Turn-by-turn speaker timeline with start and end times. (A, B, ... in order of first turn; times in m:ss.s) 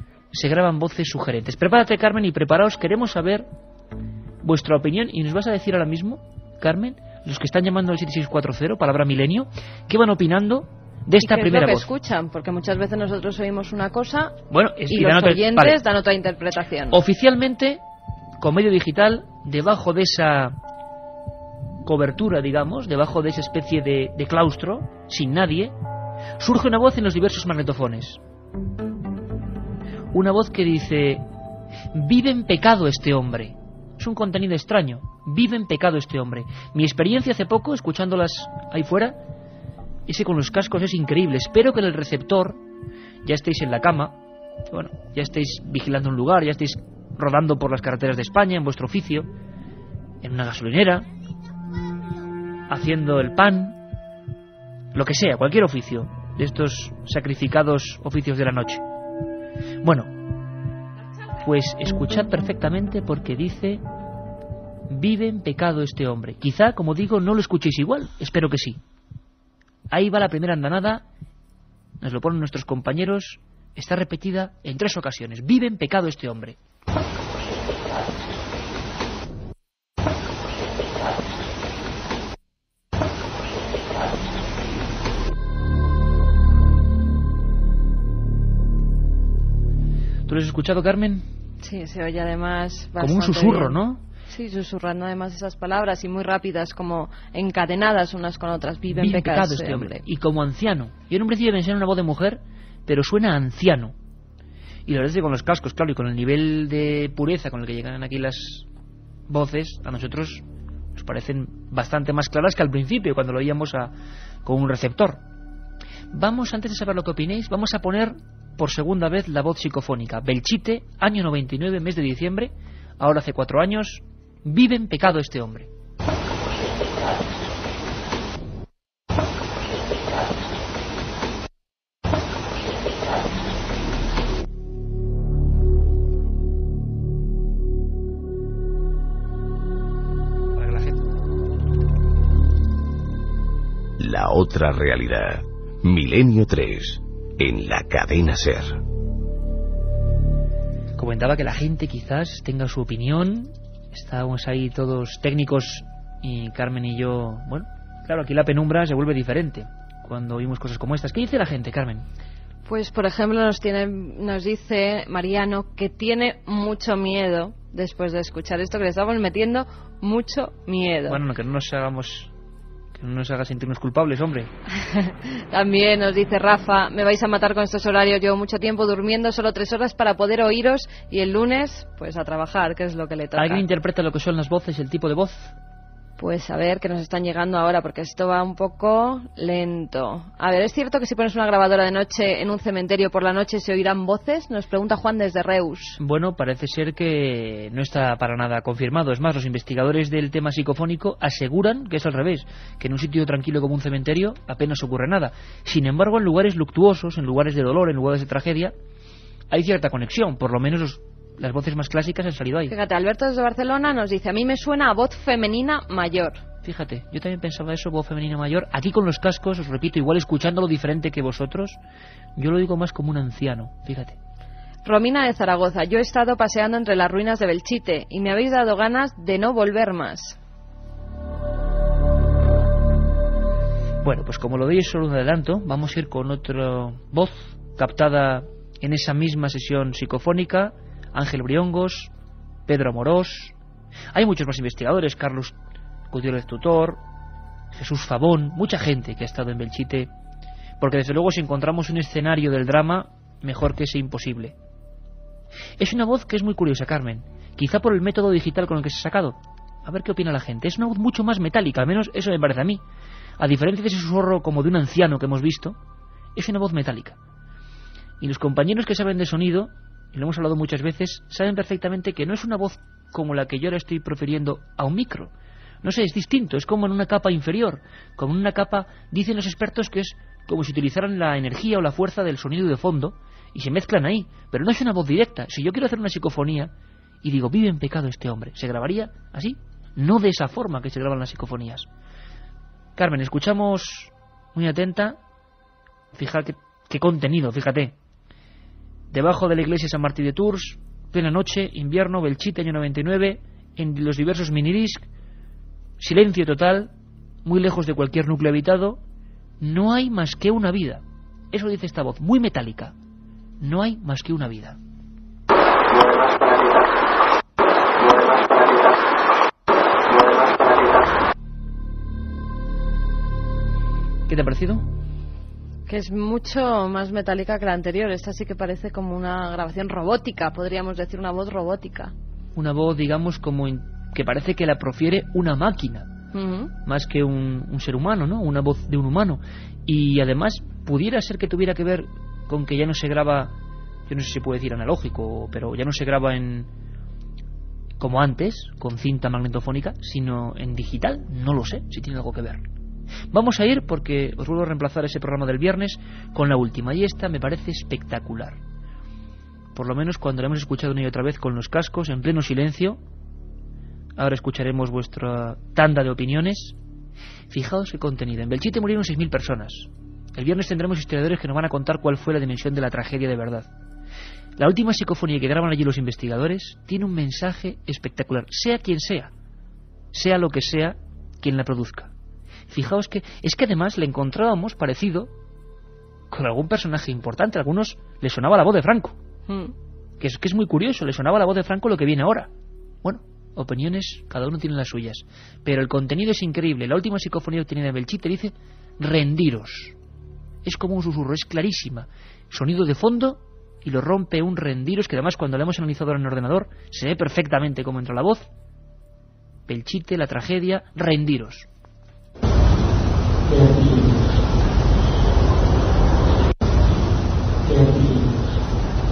0:00.3-0:03.5 A
0:04.4-0:11.9 A
0:11.2-0:17.0 B
0:14.5-0:15.8 A
0:16.9-0:17.8 A
0:18.4-0:20.6 A
0:21.8-0:25.7 A
0:26.4-0:28.2 A
0:30.1-0:31.2 A
0:31.9-0:39.2 A
0:40.1-0:42.6 A
0:43.2-0:44.2 A
0:44.7-0:49.3 A
0:50.2-0:51.1 A
0:52.7-0:53.8 A
0:54.9-0:58.8 A
0:59.8-1:00.1 A
1:01.4-1:03.8 A
1:04.9-1:08.8 A
1:09.9-1:11.0 A
1:12.0-1:16.6 A
1:30.3-1:31.2 A
1:31.6-1:33.8 B
1:33.0-1:34.0 A
1:34.3-1:40.0 B
1:38.9-1:43.9 A
1:44.9-1:48.7 A
1:49.3-1:50.4 A
1:50.9-1:53.9 A
1:54.4-1:55.2 A
1:56.1-2:05.7 A
2:20.6-2:21.0 A
2:24.0-2:28.8 C
2:31.0-2:42.0 A
2:42.6-2:51.2 B
2:51.1-2:52.3 A
2:52.9-2:54.5 A
2:54.9-3:03.6 B
3:03.4-3:05.5 A
3:06.2-3:16.0 B
3:16.0-3:28.7 A
3:29.5-3:32.7 A
3:32.7-3:36.4 B
3:36.6-3:41.8 A
3:42.4-3:44.2 A
3:44.8-3:50.4 B
3:54.0-4:02.1 A
4:02.7-4:03.5 A
4:04.1-4:05.5 A
4:06.1-4:07.0 A
4:07.7-4:10.1 A
4:10.8-4:14.5 A
4:15.8-4:22.8 A
4:23.4-4:25.8 A
4:26.3-4:27.2 A
4:28.2-4:35.3 A
4:35.8-4:46.7 A
4:47.2-4:51.9 A
4:53.0-4:55.2 A
4:56.1-4:57.9 A
4:59.1-5:05.0 A
5:06.0-5:06.9 A
5:07.4-5:09.0 A
5:09.6-5:12.9 A
5:13.6-5:14.8 A
5:24.3-5:24.8 A
5:25.9-5:32.1 B
5:32.5-5:36.1 A
5:36.3-5:36.7 B
5:36.8-5:43.5 A
5:44.1-5:46.7 A
5:48.0-5:52.6 A
5:53.3-5:58.6 A
5:59.7-6:03.0 A
6:04.2-6:06.8 A
6:07.5-6:13.7 A
6:14.6-6:19.3 A
6:20.1-6:22.1 A
6:22.7-6:25.3 A
6:26.3-6:29.1 A
6:29.5-6:29.7 B
6:30.2-6:32.5 A
6:33.0-6:40.0 A
6:40.6-6:48.4 A
6:49.7-6:51.7 A